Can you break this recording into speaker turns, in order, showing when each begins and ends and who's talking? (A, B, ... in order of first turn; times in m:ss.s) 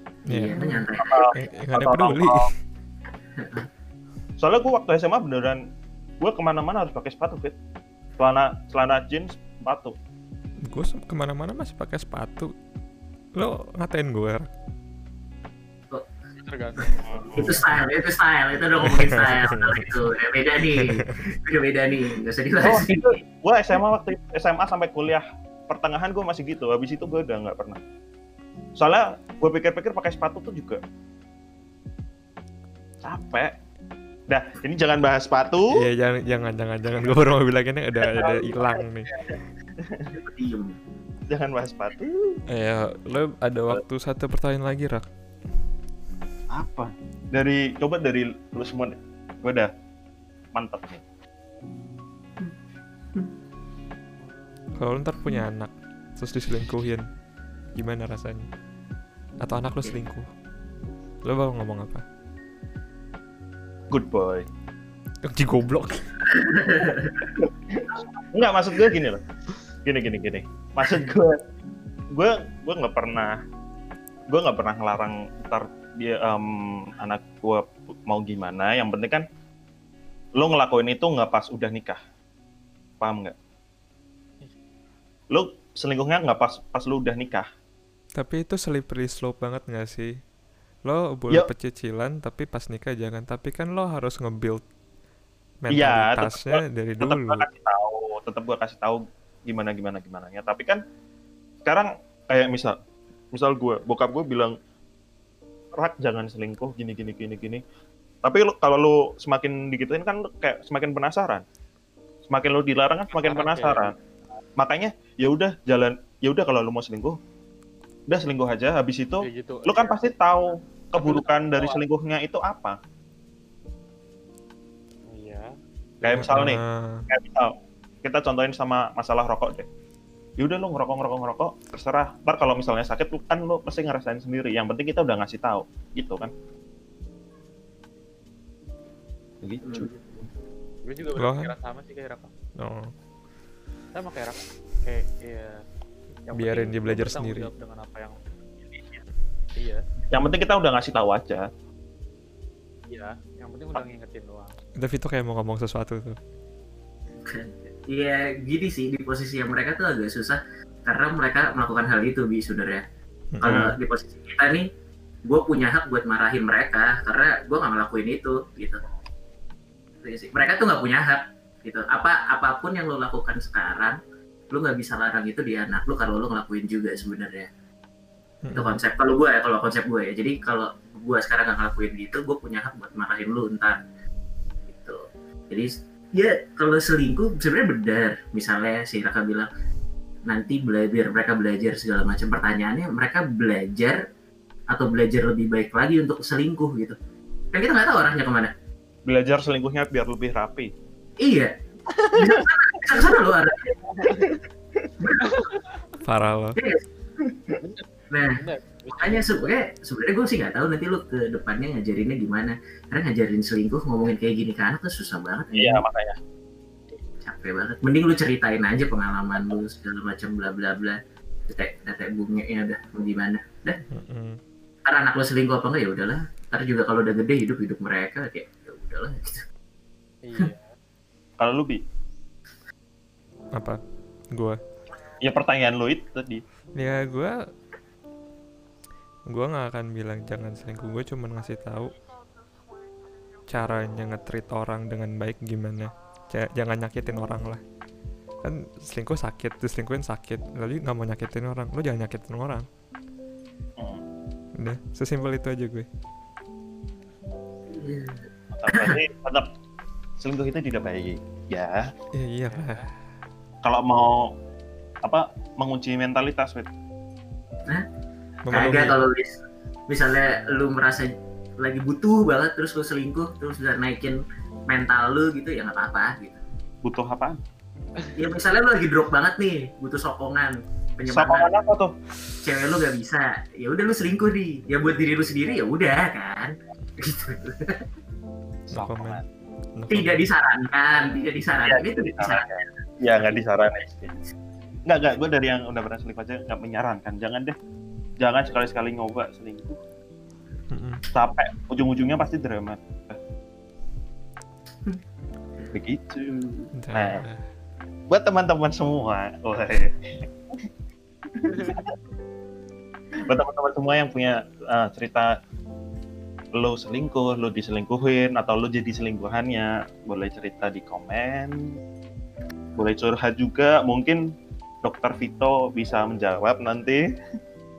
0:00.3-0:02.5 A
0:00.3-0:01.4 B
0:01.0-0:02.5 C
0:03.4-0:03.7 B
0:04.4-0:05.6 C
0:06.2-0:07.6 C
0:08.2-0:09.9 C
0:10.7-0:12.5 A
0:13.4-0:14.5 A
0:16.4-0:17.7 D
0:16.8-0:23.2 B
0:17.1-0:17.6 C
0:18.8-0:20.1 A
0:20.7-0:21.0 A
0:22.6-0:27.8 C
0:28.8-0:30.8 C
0:33.0-0:33.5 C
0:34.3-0:35.7 C
0:35.7-0:39.4 A
0:38.0-0:40.1 C
0:40.1-0:40.8 B
0:41.3-0:42.4 C
0:42.5-0:45.1 A
0:46.5-0:49.7 C
0:50.5-0:51.0 C
0:54.8-0:57.1 A
0:57.7-0:58.5 A
0:59.4-1:00.3 A
1:01.2-1:02.0 A
1:03.9-1:04.5 C
1:05.2-1:06.2 A
1:06.3-1:07.3 B
1:07.4-1:09.2 C
1:09.8-1:11.4 C
1:12.1-1:13.4 C
1:14.3-1:19.2 C
1:20.4-1:22.0 C
1:23.0-1:23.4 C
1:25.3-1:27.5 C
1:28.2-1:30.1 A
1:30.8-1:34.6 A
1:35.6-1:37.4 A
1:35.7-1:40.8 C
1:41.7-1:42.8 C
1:43.3-1:44.6 C
1:45.8-1:47.6 C
1:48.2-1:51.4 C
1:52.3-1:53.9 C
1:53.1-1:53.9 D
1:54.6-1:57.2 C
1:58.1-2:02.8 C
1:59.2-2:00.0 D
2:01.0-2:01.8 D
2:05.1-2:05.5 D
2:06.0-2:07.5 C
2:06.1-2:07.0 A
2:08.0-2:09.7 C
2:10.4-2:16.3 C
2:19.4-2:19.9 C
2:19.8-2:20.2 D
2:20.8-2:22.3 D
2:21.2-2:21.5 A
2:22.6-2:22.9 A
2:23.9-2:25.6 D
2:26.3-2:28.2 D
2:26.3-2:27.5 A
2:29.6-2:29.8 D
2:30.1-2:31.5 C
2:32.9-2:34.6 D
2:34.8-2:36.2 A
2:37.2-2:42.8 B
2:43.4-2:44.7 B
2:43.4-2:43.7 C
2:45.3-2:48.8 B
2:50.0-2:54.0 B
2:54.5-2:57.5 B
2:58.4-2:58.8 A
2:58.5-3:03.8 B
3:04.7-3:09.5 B
3:10.3-3:14.0 B
3:14.7-3:17.0 B
3:17.5-3:18.5 B
3:19.1-3:20.7 C
3:21.2-3:23.8 B
3:22.0-3:22.4 C
3:24.1-3:24.4 C
3:25.0-3:25.3 B
3:25.2-3:25.7 D
3:26.0-3:26.6 A
3:26.6-3:26.8 B
3:27.3-3:27.6 C
3:27.6-3:29.6 D
3:28.1-3:28.4 B
3:29.0-3:35.8 B
3:35.6-3:36.2 C
3:37.2-3:43.8 B
3:43.9-3:44.4 A
3:44.9-3:49.4 B
3:50.2-3:50.7 D
3:51.4-3:51.8 C
3:54.3-3:54.6 A
3:55.2-3:56.4 C
3:56.8-3:57.3 A
3:59.3-4:01.9 A
4:03.5-4:07.6 A
4:08.4-4:12.7 A
4:13.8-4:14.0 C
4:14.6-4:15.9 A
4:17.7-4:19.0 B
4:18.5-4:19.5 C
4:20.2-4:21.9 C
4:22.2-4:22.9 A
4:22.5-4:22.9 D
4:23.6-4:24.3 C
4:25.0-4:26.7 C
4:28.5-4:29.0 A
4:28.5-4:36.4 B
4:36.8-4:37.4 C
4:38.2-4:41.5 B
4:41.1-4:42.0 C
4:42.4-4:47.8 B
4:48.7-4:49.3 C
4:48.7-4:49.2 A
4:49.8-4:50.3 A
4:49.9-4:52.5 B
4:51.0-4:51.3 D
4:51.6-4:54.2 C
4:53.2-4:53.9 B
4:54.9-4:57.6 C
4:58.2-4:59.8 C
5:00.7-5:01.0 A
5:01.1-5:03.2 C
5:05.7-5:07.2 C
5:06.8-5:07.4 A
5:08.1-5:10.2 C
5:11.4-5:11.9 C
5:13.2-5:15.3 C
5:16.6-5:21.7 C
5:22.8-5:24.2 C
5:24.8-5:27.0 C